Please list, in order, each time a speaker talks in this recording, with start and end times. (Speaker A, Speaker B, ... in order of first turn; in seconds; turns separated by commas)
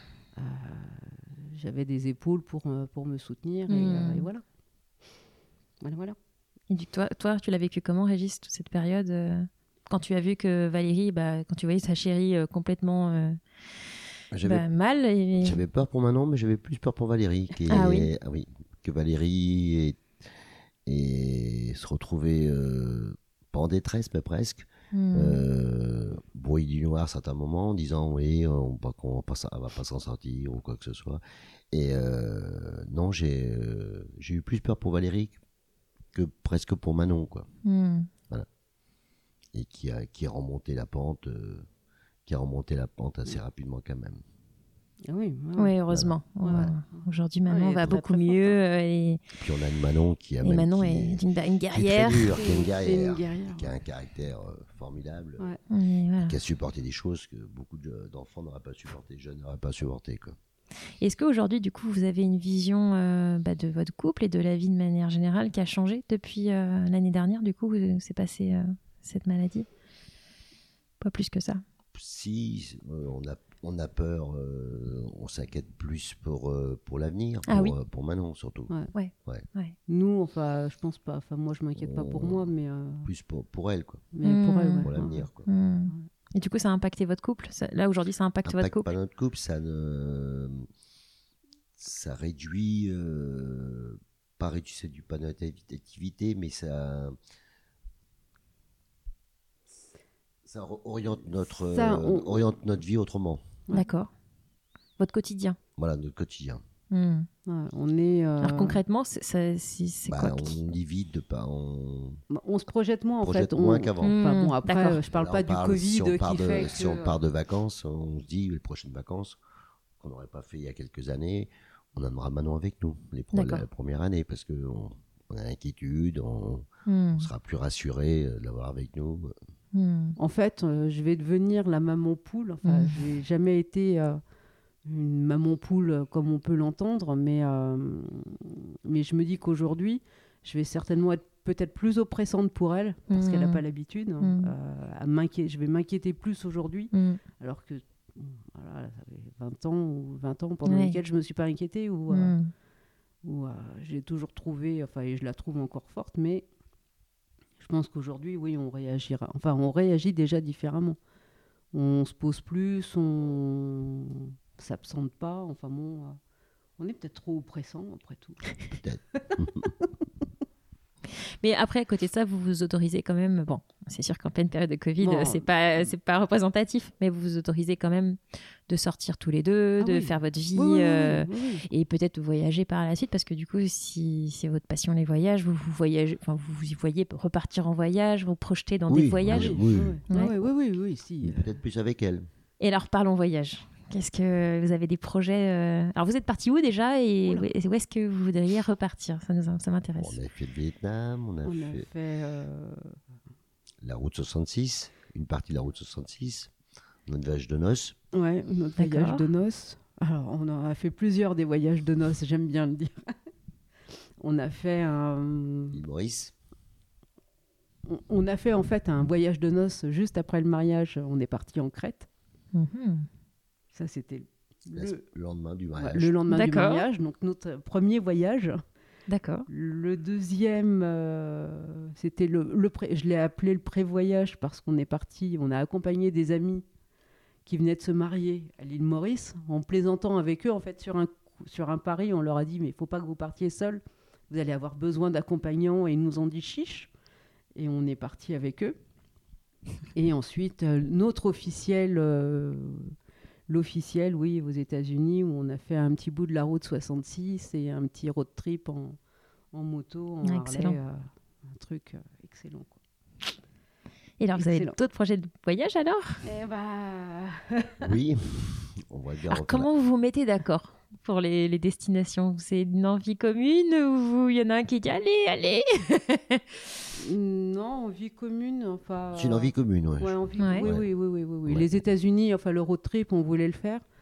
Speaker A: 0.3-4.4, Speaker B: 3.7-4.3, Speaker A: 5.8-6.2, Speaker B: 6.7-13.4, Speaker C: 14.3-14.7, Speaker B: 14.4-15.6, Speaker C: 15.4-20.0, Speaker B: 17.7-18.1, Speaker C: 20.9-35.4, Speaker B: 24.9-25.4, Speaker C: 36.1-37.5, Speaker B: 37.6-38.1, Speaker C: 39.5-41.6, Speaker C: 42.2-44.2, Speaker A: 45.1-45.8, Speaker B: 45.6-49.2, Speaker A: 46.4-48.5, Speaker C: 49.4-55.5, Speaker B: 50.4-52.4, Speaker A: 52.3-53.7, Speaker B: 55.7-56.4, Speaker C: 56.2-60.4, Speaker B: 61.0-69.7, Speaker B: 71.0-71.6, Speaker C: 71.9-78.7, Speaker B: 77.5-77.7, Speaker B: 78.9-79.7, Speaker A: 79.9-83.1, Speaker C: 81.8-82.5, Speaker C: 83.0-84.1, Speaker A: 84.1-85.2, Speaker B: 84.2-88.9, Speaker C: 84.8-85.5, Speaker C: 88.4-90.7, Speaker C: 91.8-97.2, Speaker C: 100.5-103.5, Speaker A: 101.7-102.3, Speaker B: 103.7-104.1, Speaker B: 105.0-105.6, Speaker C: 105.8-106.6, Speaker B: 106.9-107.3, Speaker A: 107.5-108.8, Speaker B: 108.4-110.5, Speaker C: 110.1-112.2, Speaker A: 112.3-117.2, Speaker C: 113.2-114.2, Speaker B: 114.0-115.0, Speaker C: 115.1-119.4, Speaker C: 120.0-126.7, Speaker B: 123.3-123.6, Speaker B: 126.8-127.3, Speaker C: 127.2-129.3, Speaker B: 129.7-130.2, Speaker A: 130.2-134.2, Speaker B: 132.6-133.0, Speaker A: 134.8-152.3, Speaker B: 143.1-143.6, Speaker B: 144.2-144.5, Speaker B: 146.9-147.2, Speaker B: 150.7-151.0, Speaker B: 152.1-152.5, Speaker A: 153.2-156.5, Speaker A: 157.6-161.0, Speaker A: 161.7-166.2, Speaker A: 166.8-169.8, Speaker C: 168.7-169.7, Speaker B: 171.4-190.3, Speaker A: 175.0-175.5, Speaker A: 179.8-181.7, Speaker C: 188.9-190.5, Speaker A: 189.3-191.6, Speaker C: 191.2-192.2, Speaker B: 192.6-200.2, Speaker C: 200.0-201.9, Speaker A: 201.4-202.9, Speaker C: 203.8-206.5, Speaker C: 207.1-207.9, Speaker A: 208.1-213.1, Speaker B: 208.8-209.3, Speaker A: 214.2-215.8, Speaker C: 215.7-216.3, Speaker A: 217.8-222.1, Speaker B: 222.5-223.1, Speaker A: 223.7-225.0, Speaker C: 224.8-226.2, Speaker A: 225.8-228.6, Speaker B: 226.3-226.8, Speaker B: 229.1-229.5, Speaker A: 229.5-236.6, Speaker A: 237.4-246.9, Speaker A: 247.5-248.8, Speaker A: 249.9-252.9, Speaker A: 253.5-259.0, Speaker A: 259.5-262.8, Speaker B: 260.2-260.8, Speaker B: 264.2-266.2, Speaker A: 264.3-264.8, Speaker A: 266.2-267.9, Speaker C: 267.8-269.7, Speaker B: 269.3-276.6, Speaker A: 276.9-283.8, Speaker C: 279.1-280.9, Speaker B: 280.4-280.7, Speaker C: 281.4-281.8